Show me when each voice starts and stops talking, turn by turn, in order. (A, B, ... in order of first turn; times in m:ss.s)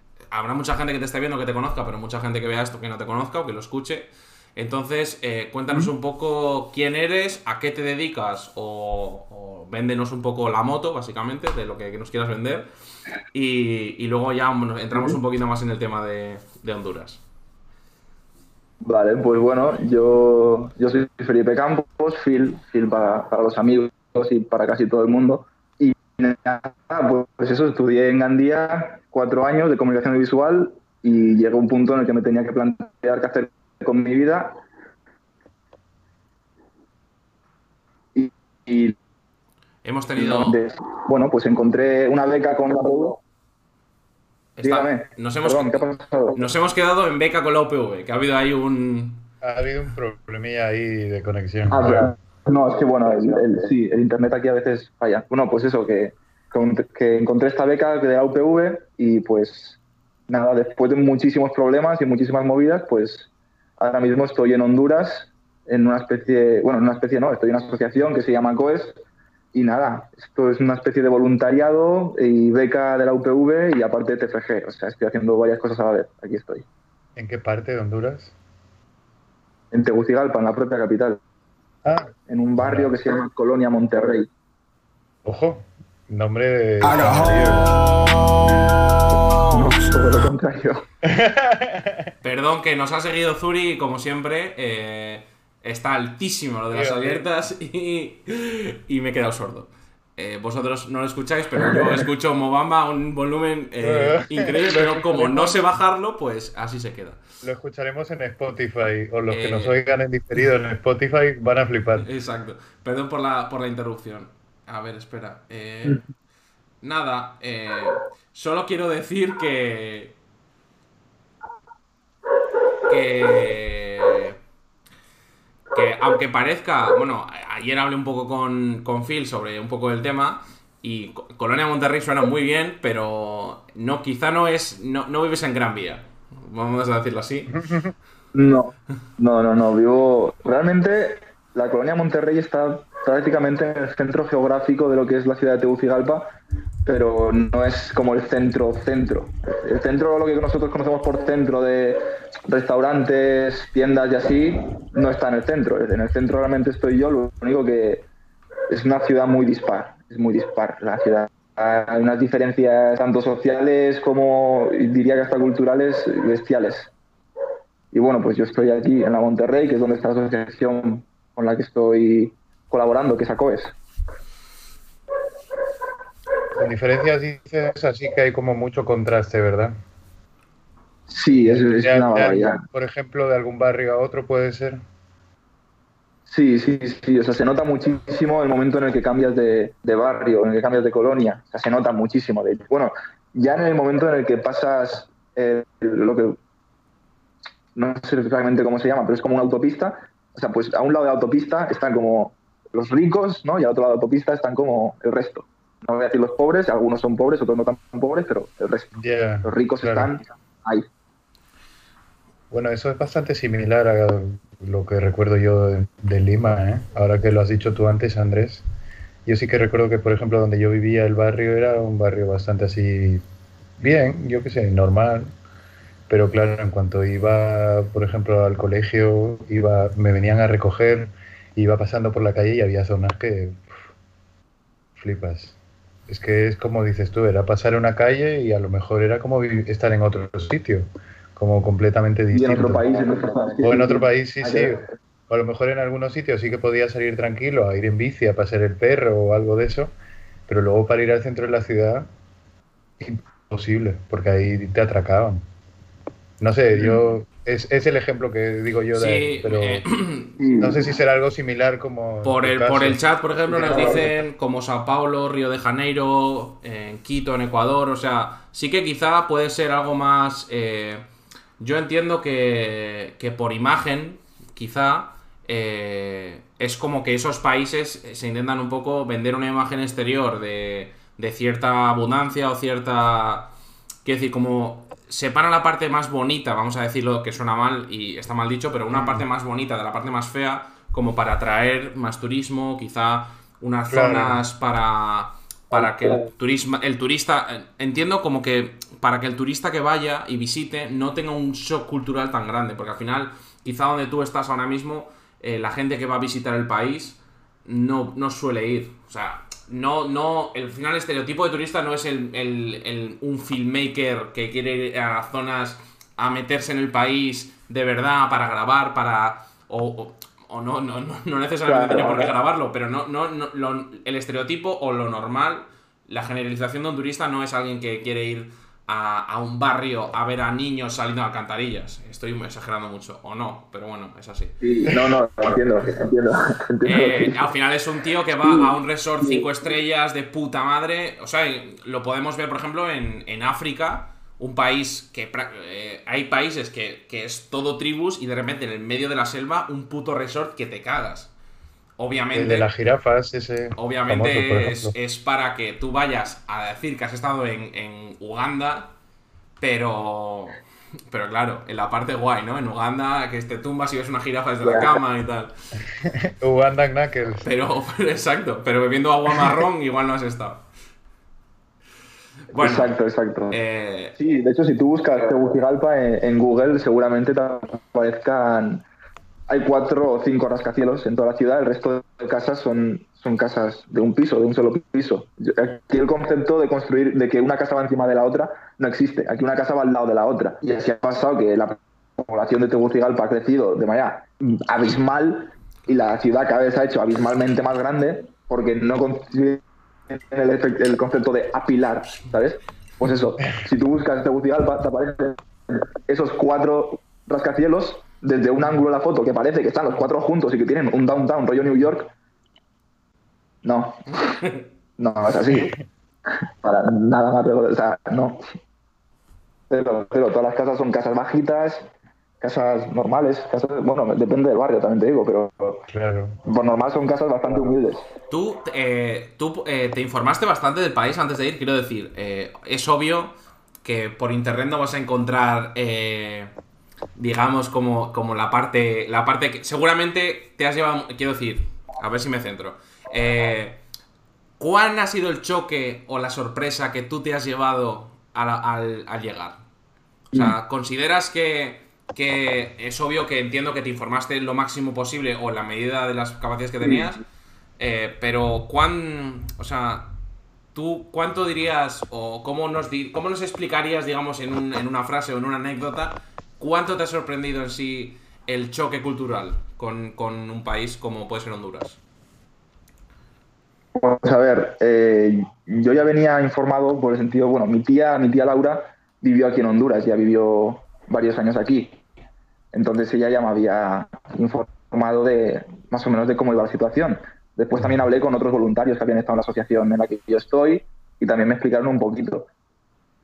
0:00.3-0:12.7 A
0:13.3-0:17.2 A
0:18.8-0:34.6 B
0:38.2-0:39.0 B
0:39.8-0:40.6 A
0:40.2-0:43.2 B
0:44.6-0:49.3 A
0:44.6-0:46.4 B
0:49.4-0:52.1 C
0:51.7-1:09.0 B
1:09.5-1:16.6 B
1:17.2-1:18.3 C
1:19.7-1:21.2 B
1:21.8-1:22.9 C
1:22.3-1:24.3 B
1:25.2-1:27.7 C
1:29.4-1:30.8 B
1:31.0-1:32.1 C
1:32.2-1:47.2 A
1:36.7-1:37.3 C
1:43.8-1:45.6 C
1:47.4-1:52.1 C
1:49.3-1:49.8 A
1:52.0-1:56.0 A
1:56.8-2:00.2 A
2:02.8-2:04.4 A
2:05.7-2:17.6 A
2:17.5-2:17.9 C
2:18.3-2:26.3 B
2:26.9-2:38.1 B
2:38.7-2:46.9 B
2:47.9-2:53.8 B
2:56.6-2:59.8 C
3:01.1-3:02.6 B
3:01.4-3:04.8 C
3:06.3-3:16.4 B
3:17.8-3:28.9 B
3:29.0-3:30.1 C
3:29.4-3:30.9 B
3:32.5-3:38.6 C
3:39.3-3:43.2 C
3:43.8-3:45.3 C
3:46.1-3:53.8 C
3:55.0-3:55.6 C
3:56.1-4:02.8 C
4:02.3-4:04.8 B
4:03.6-4:09.9 C
4:10.5-4:12.1 C
4:13.0-4:15.4 C
4:16.4-4:19.8 C
4:16.7-4:17.0 B
4:18.9-4:20.5 A
4:20.4-4:20.8 B
4:20.6-4:24.1 C
4:22.2-4:31.0 A
4:23.6-4:24.0 B
4:31.6-4:43.5 A
4:44.0-5:34.6 A
4:48.9-4:49.2 C
4:53.9-4:54.4 C
4:55.8-4:56.2 B
5:21.7-5:22.3 B
5:34.6-5:37.4 B
5:36.8-5:51.3 A
5:38.4-5:39.5 B
5:52.0-5:52.7 A
5:52.3-5:55.0 C
5:53.8-5:58.9 A
5:59.6-6:00.6 A
6:01.1-6:05.5 A
6:04.6-6:05.0 B
6:06.0-6:07.5 C
6:07.4-6:10.6 A
6:12.5-6:13.0 A
6:12.6-6:13.6 B
6:13.5-6:14.2 A
6:14.2-6:18.8 B
6:19.5-6:52.1 B
6:53.6-6:54.4 B
6:55.0-6:55.8 B
6:56.4-6:58.4 B
6:59.7-7:01.9 B
7:02.4-7:05.8 B
7:05.9-7:06.4 C
7:06.5-7:08.1 B
7:08.3-7:13.3 A
7:13.8-7:16.5 A
7:17.2-7:23.8 A
7:24.6-7:29.6 A
7:30.3-7:37.2 A
7:36.8-7:37.1 B
7:37.8-7:40.1 A
7:40.8-7:52.0 A
7:54.0-8:02.0 B
8:02.7-8:12.5 B